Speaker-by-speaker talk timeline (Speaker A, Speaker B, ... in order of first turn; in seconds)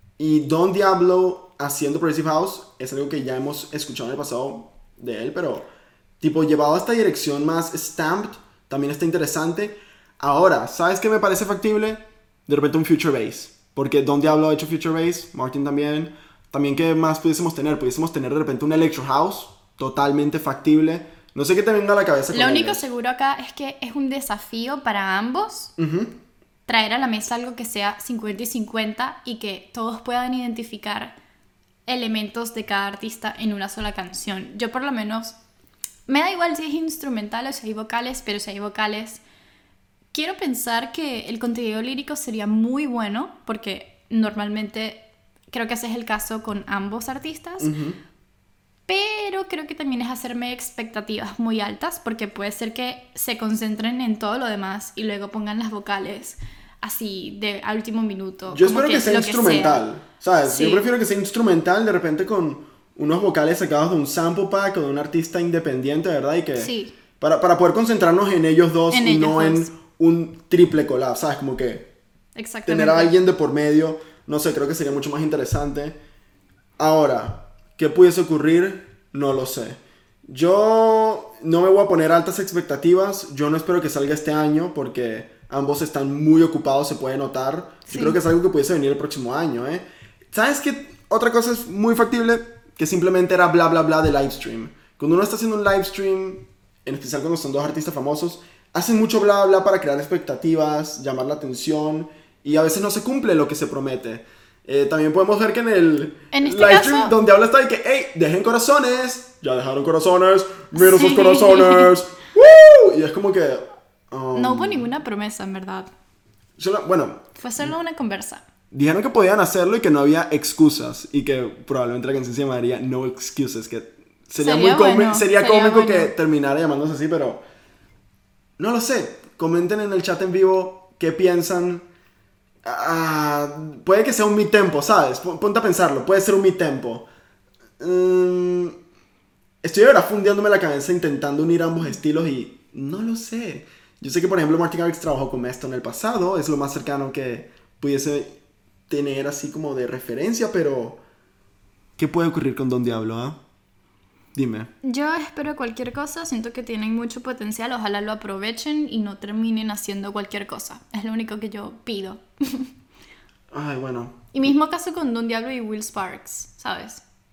Speaker A: 0.2-5.7, 6.2-22.8, 25.8-26.2, 47.6-48.0, 58.5-71.9, 72.7-76.0, 76.8-114.9, 116.6-117.7, 118.7-127.4, 128.6-131.9, 132.6-137.1, 137.8-138.8, 139.6-148.4, 148.9-151.0, 152.0-153.4, 154.3-154.7, 163.5-164.2
Speaker B: 22.3-25.7, 26.7-31.2, 31.9-35.4, 36.1-39.2, 40.1-47.7, 48.9-59.9, 60.4-60.9, 66.5-66.9, 68.9-69.7, 72.3-73.1, 87.9-88.2, 106.3-107.1, 110.7-111.9, 114.3-115.9, 117.4-118.4, 124.4-126.1, 154.8-162.7, 164.3-167.0